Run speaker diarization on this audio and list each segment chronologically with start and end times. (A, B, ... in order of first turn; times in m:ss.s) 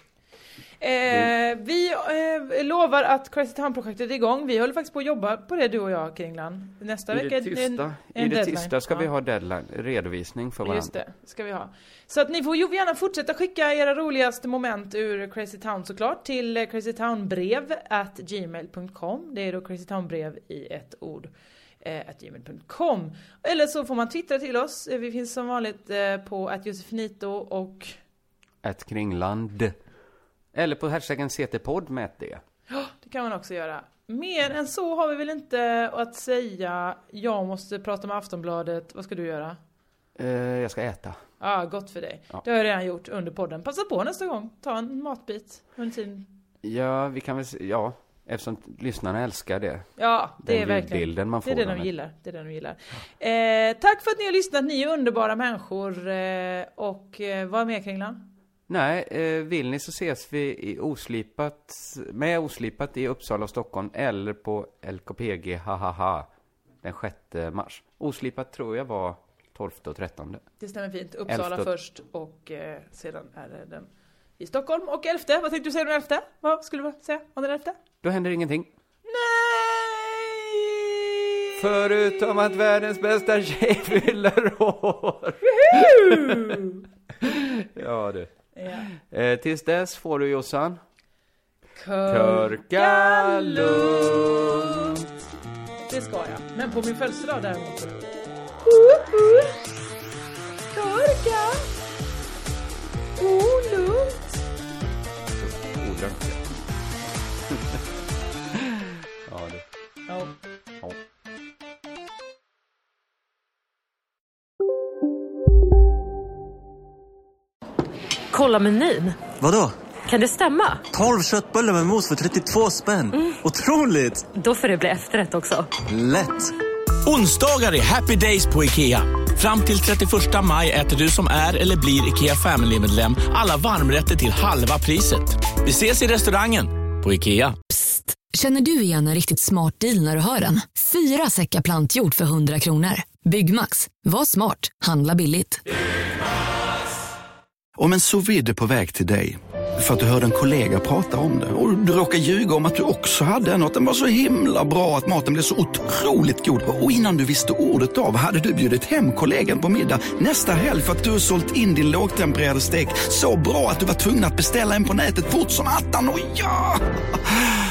0:00.8-0:09.1 A
0:07.1-0:11.0 B
0:10.6-0:21.3 A
0:21.8-0:27.9 A
0:28.6-0:29.7 B
0:30.5-0:32.4 B
0:32.7-0:39.6 A
0:40.2-0:41.2 B
0:41.4-0:46.3 A
0:46.6-0:49.9 B
0:50.0-0:58.2 A
0:50.4-0:51.9 B
0:58.7-1:06.3 B
1:06.8-1:10.4 B
1:10.6-1:17.8 A
1:11.3-1:11.7 B
1:18.0-1:18.7 B
1:19.0-1:21.6 A
1:21.6-1:26.6 B
1:25.4-1:26.8 A
1:27.2-1:28.3 B
1:28.5-1:28.9 A
1:28.9-1:30.8 B
1:31.8-1:35.0 A
1:32.0-1:35.0 B
1:35.9-1:38.0 A
1:38.6-1:39.6 A
1:40.7-1:41.7 A
1:43.2-1:44.4 A
1:45.4-1:46.4 B
1:47.5-1:47.8 B
1:48.5-1:49.6 B
1:58.3-1:59.3 C
1:59.4-1:59.7 D
2:00.0-2:00.8 C
2:00.9-2:04.2 D
2:04.3-2:05.7 C
2:05.9-2:06.5 D
2:07.0-2:17.6 E
2:17.7-2:25.6 F
2:27.8-2:47.4 G